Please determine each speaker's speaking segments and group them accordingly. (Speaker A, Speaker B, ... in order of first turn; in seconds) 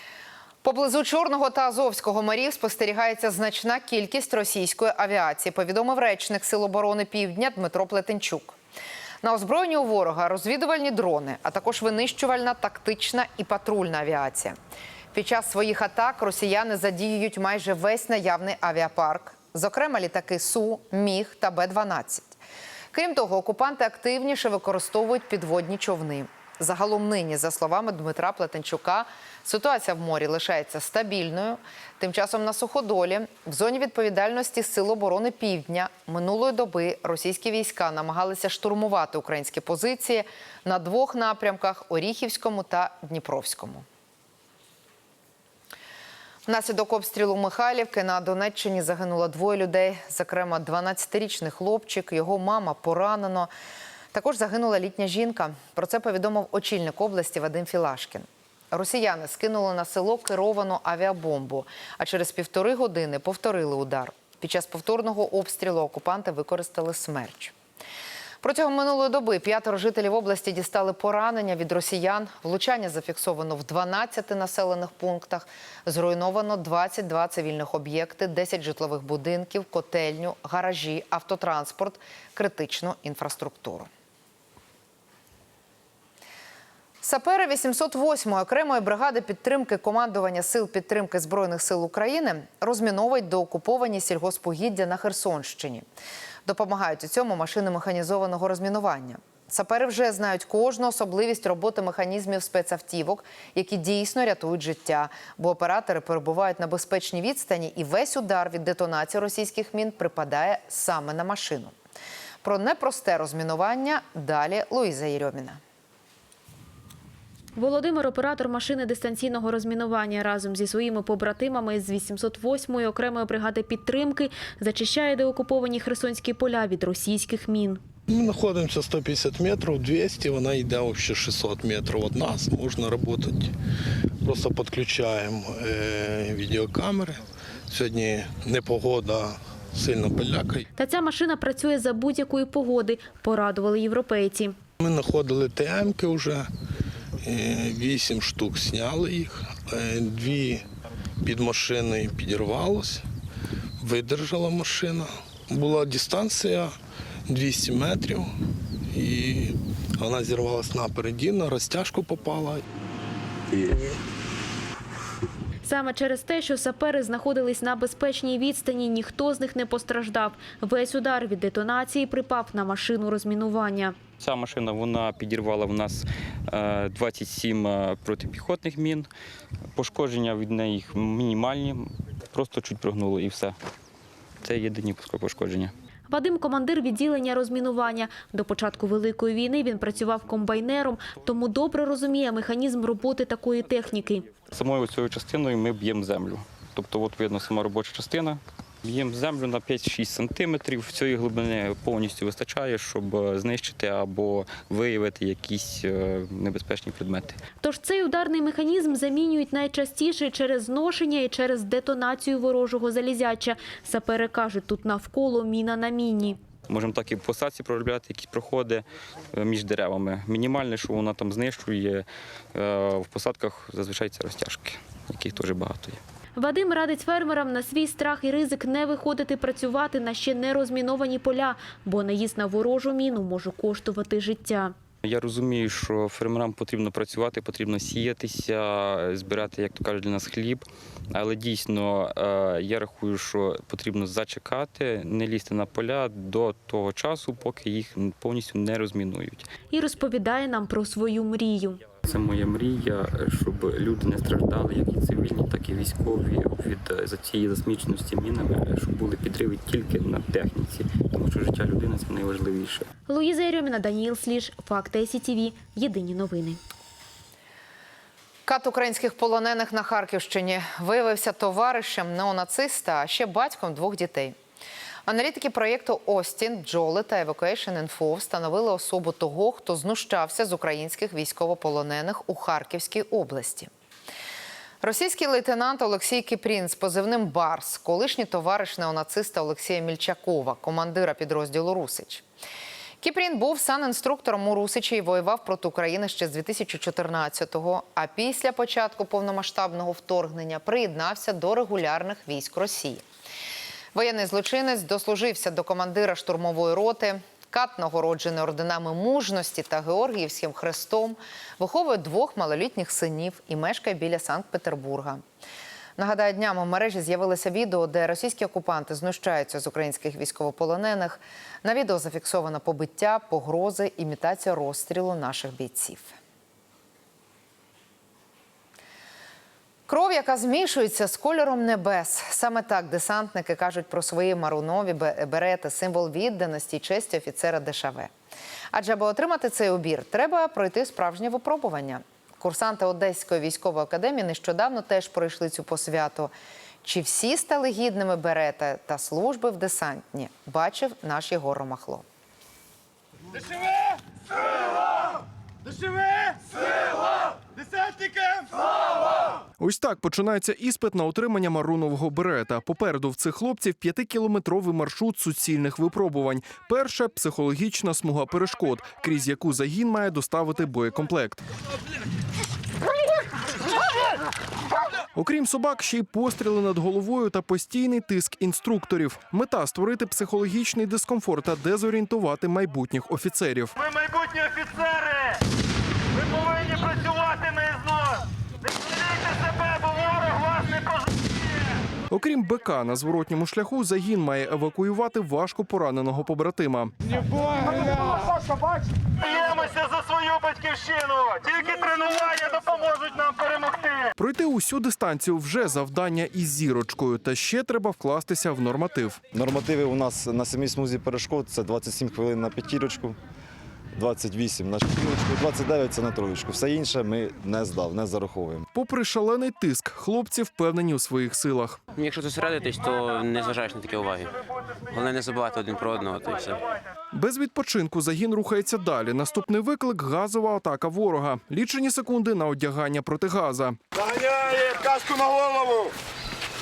Speaker A: 0.6-8.6, 9.2-14.6, 15.1-22.4, 22.9-43.9, 46.5-53.5, 54.1-67.5, 68.4-83.9, 87.0-95.8, 96.5-111.7, 112.4-115.6, 268.5-274.4, 275.1-283.7, 284.8-292.2, 293.0-303.0, 303.9-315.2, 316.0-326.2, 329.9-338.1, 338.7-346.3, 346.8-352.1
Speaker B: 117.6-127.8, 140.8-144.6, 165.6-174.0, 186.1-194.3, 207.6-216.4, 226.4-234.7, 249.7-251.9, 263.1-266.6
Speaker C: 128.1-133.5, 134.2-140.7, 144.8-146.5, 147.2-150.6, 151.2-153.0, 153.8-156.8, 157.3-158.3, 158.9-162.6, 163.6-164.0
Speaker D: 174.2-179.1, 179.8-183.6, 184.4-185.7, 194.5-207.4, 216.7-226.0, 235.0-249.5, 252.0-262.9
Speaker E: 359.6-371.4, 375.1-383.7, 392.1-396.9, 404.2-409.2, 418.7-421.8, 427.1-433.8
Speaker F: 383.8-385.3, 386.2-388.2, 388.9-391.1, 399.2-404.0, 434.0-435.9
Speaker G: 409.3-413.2, 414.0-418.7
Speaker H: 422.0-424.3, 424.9-426.6